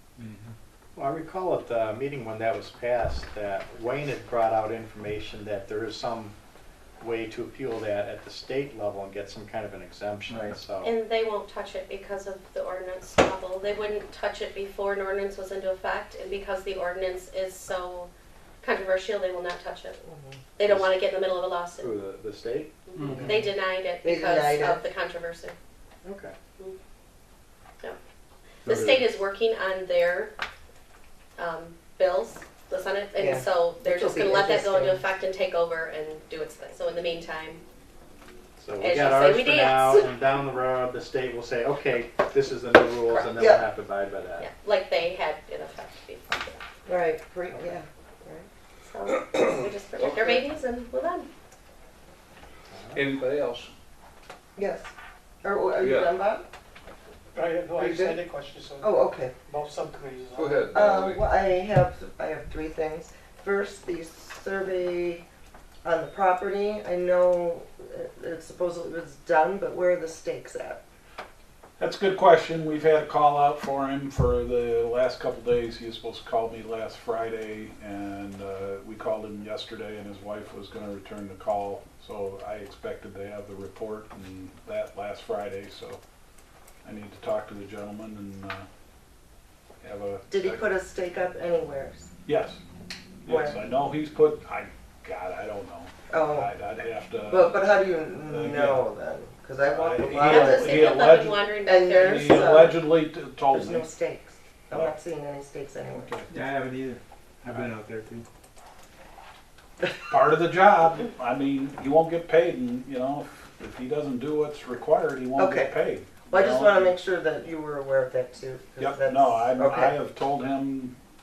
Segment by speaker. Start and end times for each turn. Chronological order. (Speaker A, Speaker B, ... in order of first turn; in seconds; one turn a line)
Speaker A: 0.2-0.5
Speaker B: 1.0-6.3
Speaker B: 7.0-10.9
Speaker A: 10.3-10.6
Speaker C: 10.8-18.1
Speaker C: 18.6-20.0
Speaker D: 20.1-20.4
Speaker C: 20.6-21.9
Speaker B: 20.6-20.9
Speaker B: 21.8-23.2
Speaker C: 22.9-25.6
Speaker D: 23.2-23.4
Speaker D: 24.0-24.8
Speaker B: 26.0-26.3
Speaker C: 28.6-30.3
Speaker B: 28.6-29.1
Speaker C: 31.4-37.6
Speaker D: 33.2-35.0
Speaker B: 38.6-44.5
Speaker C: 38.8-40.1
Speaker C: 43.1-43.5
Speaker C: 44.4-46.5
Speaker D: 46.9-48.5
Speaker B: 47.5-47.8
Speaker C: 48.8-51.3
Speaker E: 49.6-50.2
Speaker B: 52.7-53.0
Speaker E: 52.9-53.7
Speaker D: 54.6-54.9
Speaker D: 55.4-56.5
Speaker E: 55.8-56.1
Speaker F: 57.3-60.7
Speaker D: 57.8-58.2
Speaker D: 58.8-59.3
Speaker E: 60.5-61.2
Speaker D: 60.7-65.2
Speaker D: 65.8-70.8
Speaker G: 71.8-86.0
Speaker G: 86.8-88.7
Speaker G: 89.8-90.6
Speaker D: 90.3-92.1
Speaker G: 92.3-92.6
Speaker G: 93.2-97.6
Speaker D: 93.3-93.6
Speaker D: 96.1-96.5
Speaker D: 97.3-102.9
Speaker G: 98.2-98.8
Speaker G: 99.7-103.9
Speaker C: 100.2-102.6
Speaker D: 103.5-106.1
Speaker G: 105.9-106.4
Speaker A: 106.3-108.3
Speaker G: 110.1-117.0
Speaker D: 115.4-115.7
Speaker D: 116.3-120.0
Speaker G: 118.8-121.0